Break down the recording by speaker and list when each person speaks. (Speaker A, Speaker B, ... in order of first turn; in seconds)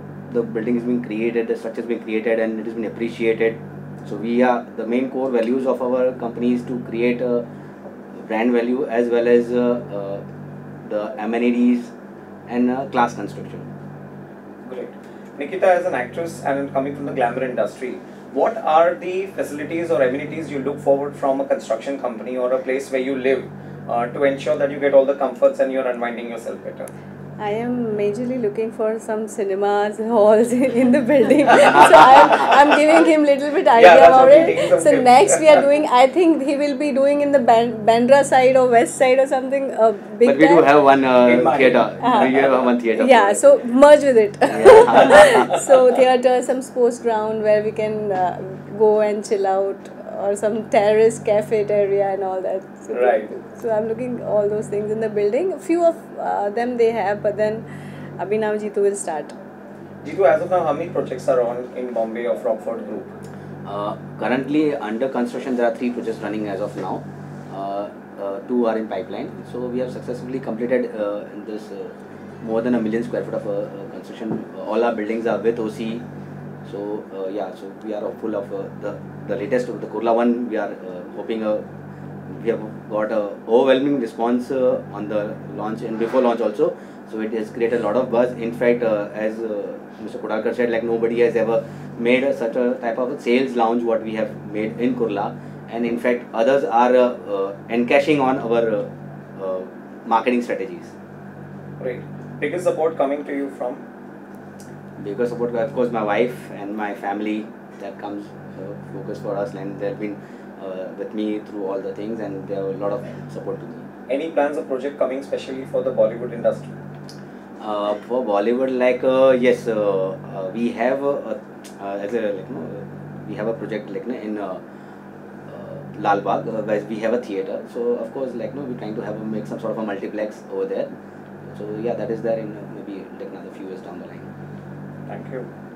Speaker A: 0.3-7.4, 8.2-10.2, 10.8-11.9, 12.5-13.7, 40.2-43.5, 44.5-45.5, 63.6-76.0, 76.7-81.7, 82.3-100.9, 105.0-113.9, 117.6-124.6, 125.5-130.9, 131.4-134.3
Speaker B: 14.7-26.9, 33.7-35.6, 41.2-42.7, 45.0-46.0, 52.9-53.3, 60.0-63.1, 101.8-103.8, 114.1-116.7, 135.1-135.5
Speaker C: 27.4-40.7, 42.0-42.4, 42.9-57.6, 58.2-59.3